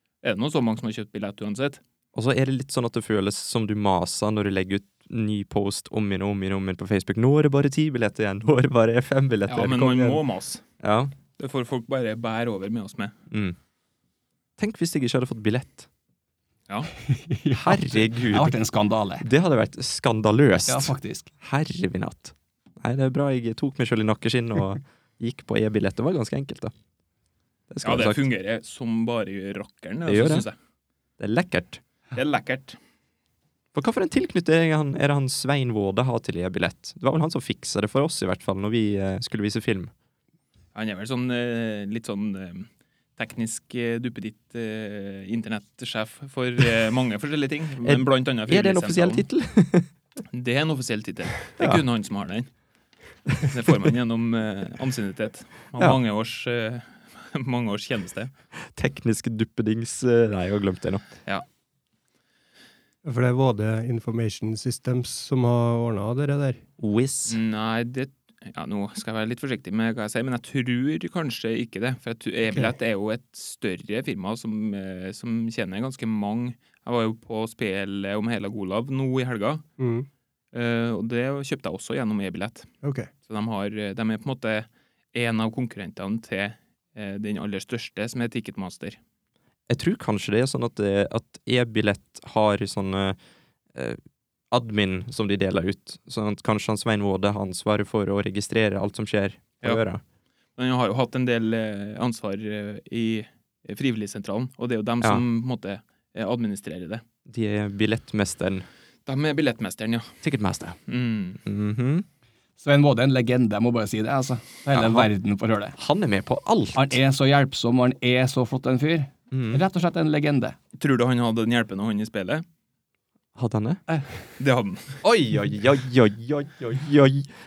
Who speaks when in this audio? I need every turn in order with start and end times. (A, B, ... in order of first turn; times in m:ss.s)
0:00.2-0:01.8 A
0:02.1-0:10.2 B
0:09.5-0:10.6 A
0:10.8-0:11.1 B
0:11.4-0:13.1 A
0:13.3-0:13.6 B
0:14.6-0:15.9 B
0:17.1-0:19.2 C
0:17.5-0:18.6 B
0:19.2-0:26.7 B
0:20.7-0:21.3 C
0:27.7-0:28.2 B
0:27.8-0:30.5 A
0:30.0-0:30.4 B
0:31.2-0:31.8 B
0:32.1-0:32.8 A
0:33.7-0:39.9 B
0:40.7-0:49.2 A
0:47.8-0:49.9 B
0:50.3-0:52.5 A
0:53.4-0:58.3 A
0:58.7-1:01.0 B
1:03.0-1:06.6 D
1:06.8-1:07.4 B
1:07.3-1:19.6 A
1:19.8-1:20.1 D
1:20.5-1:22.7 A
1:22.8-1:23.1 D
1:23.3-1:29.0 A
1:29.7-1:33.2 B
1:34.5-1:40.0 B
1:40.6-1:47.0 A
1:47.3-1:48.6 B
1:49.0-1:50.2 A
1:50.2-1:50.8 B
1:50.9-1:51.4 A
1:51.4-1:52.0 B
1:52.6-1:55.8 C
1:54.7-1:55.1 B
1:55.8-1:57.0 B
1:56.7-2:00.6 C
1:59.3-1:59.6 B
2:00.8-2:02.4 A
2:03.4-2:03.8 B
2:04.4-2:05.0 A
2:05.0-2:07.3 B